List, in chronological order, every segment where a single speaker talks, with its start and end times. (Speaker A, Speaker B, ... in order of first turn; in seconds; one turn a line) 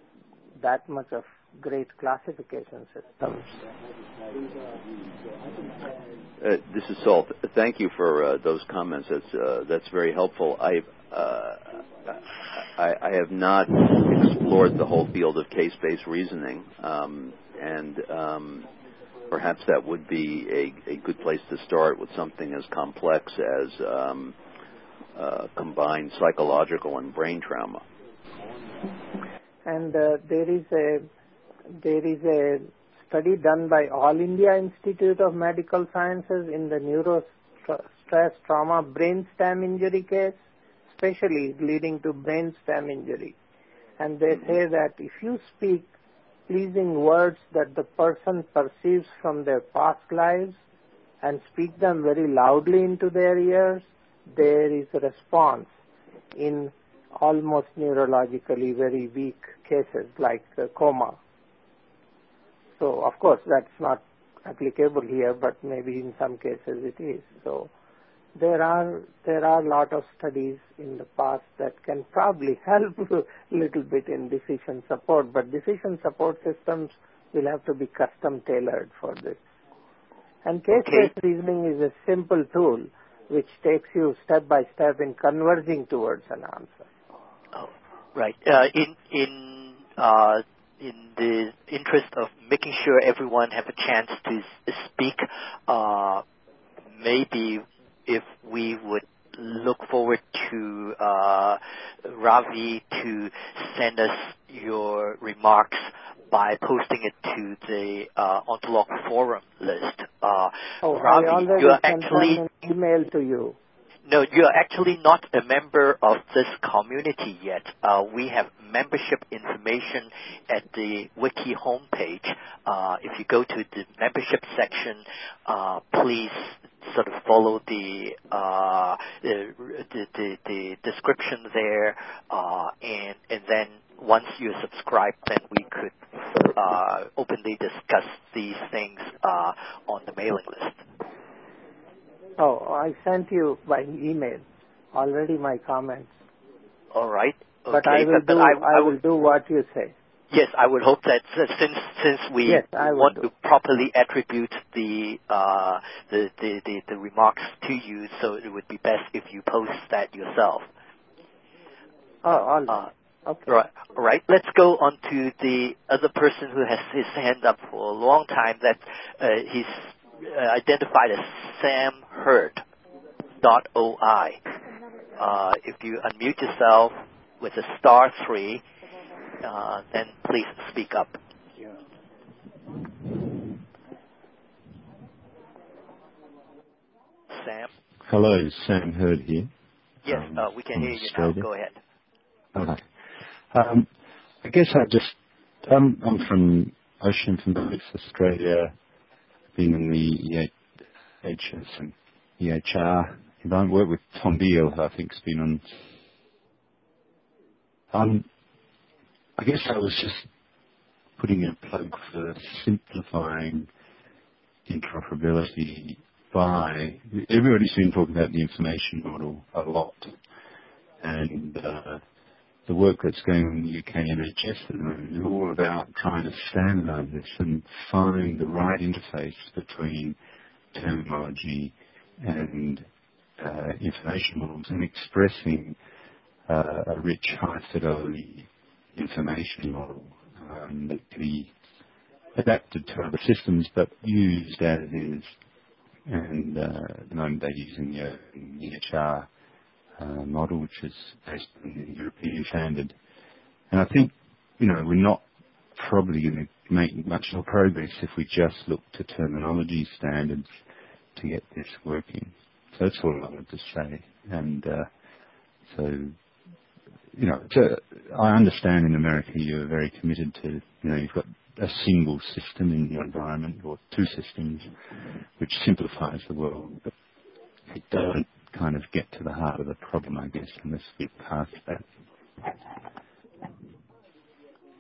Speaker A: 0.6-3.5
Speaker B: 6.4-18.7
Speaker B: 19.3-24.4
Speaker B: 25.1-27.8
Speaker A: 29.7-31.1
Speaker A: 31.8-40.4
Speaker A: 40.9-43.4
Speaker A: 44.0-45.9
Speaker A: 46.5-50.6
Speaker A: 51.2-55.7
Speaker A: 56.4-61.2
Speaker A: 62.8-67.7
Speaker A: 68.4-79.4
Speaker A: 80.5-86.9
Speaker C: 80.8-81.1
Speaker C: 87.5-96.2
Speaker C: 97.0-112.4
Speaker A: 110.8-113.6
Speaker C: 114.1-140.8
Speaker A: 142.4-146.1
Speaker C: 146.9-148.9
Speaker A: 147.7-149.9
Speaker C: 150.3-160.7
Speaker A: 152.4-153.3
Speaker A: 162.2-163.5
Speaker C: 163.5-172.6
Speaker C: 173.4-174.4
Speaker C: 175.2-178.6
Speaker C: 179.4-181.2
Speaker C: 187.3-187.7
Speaker D: 188.0-189.5
Speaker C: 190.0-191.8
Speaker D: 190.1-191.5
Speaker D: 192.6-192.8
Speaker D: 193.5-193.9
Speaker D: 194.4-198.7
Speaker D: 199.6-200.5
Speaker D: 201.2-205.7
Speaker D: 207.9-208.3
Speaker D: 209.4-210.3
Speaker D: 211.2-213.7
Speaker D: 214.7-220.2
Speaker D: 221.0-222.0
Speaker D: 222.7-230.2
Speaker D: 230.7-232.9
Speaker D: 233.4-235.8
Speaker D: 236.5-241.5
Speaker D: 242.3-245.3
Speaker D: 246.1-249.3
Speaker D: 250.0-253.0
Speaker D: 253.7-255.2
Speaker D: 255.8-260.5
Speaker D: 261.1-264.9
Speaker D: 265.7-266.2
Speaker D: 267.1-274.7
Speaker D: 275.4-276.9
Speaker D: 277.7-281.9